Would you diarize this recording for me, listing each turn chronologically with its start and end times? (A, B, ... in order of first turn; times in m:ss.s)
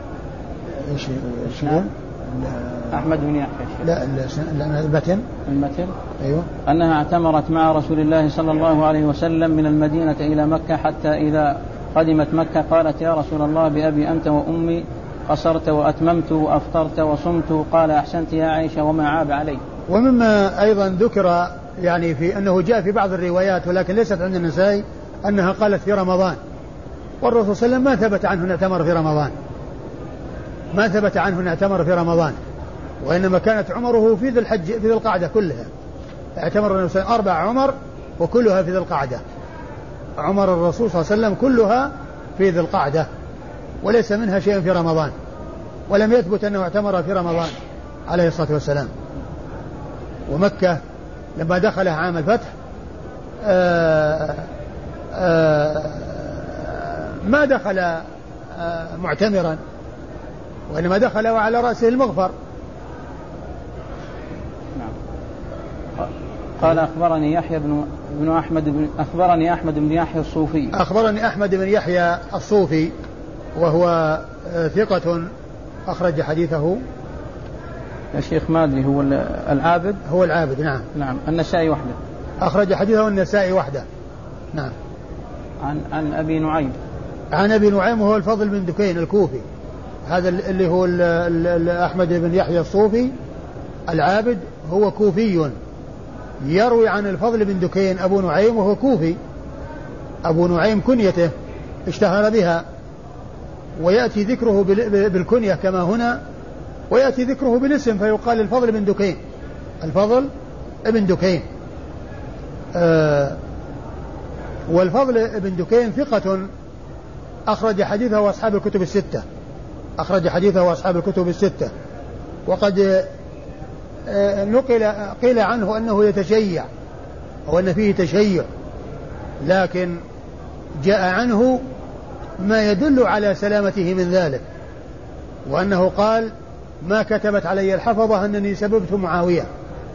0:00.7-0:03.0 A
0:02.9-0:03.9 B
0:03.8-0:05.2 A
0:05.4-0:05.9 B
0:06.2-0:06.5 A
0:06.6-0:19.6 B
0:19.9-0:26.4 A
0:27.2-0:29.3 A
0:30.7-0:32.4 A
0:33.0-0:35.7 A
0:36.4-0:39.2 A
0:40.2-0:43.1 A
0:43.8-0:45.1 A
0:45.9-0:48.9 A
0:50.3-0:50.8 A
0:51.4-0:52.5 A
0:53.4-0:54.5 A
0:55.1-0:59.6 A
1:00.7-1:02.3 A
1:06.0-1:10.8 B
1:10.7-1:12.9 A
1:13.5-1:15.3 A
1:15.8-1:16.8 A
1:18.1-1:20.0 B
1:20.0-1:20.8 A
1:20.9-1:22.0 B
1:22.4-1:23.8 A
1:25.6-1:26.8 B
1:27.3-1:29.4 A
1:30.0-1:33.1 A
1:33.9-1:35.5 A
1:36.4-1:39.2 A
1:40.2-1:41.3 A
1:41.8-1:42.6 A
1:43.8-1:46.2 A
1:46.9-1:49.2 A
1:49.8-1:50.3 A
1:50.8-1:51.4 A
1:52.7-1:53.4 A
1:54.7-1:56.5 A
1:57.5-1:59.2 A
2:00.0-2:01.7 A
2:02.4-2:03.1 A
2:04.0-2:06.7 A
2:07.4-2:08.4 A
2:09.4-2:10.0 A
2:10.8-2:11.6 A
2:12.4-2:14.4 A
2:15.4-2:19.5 A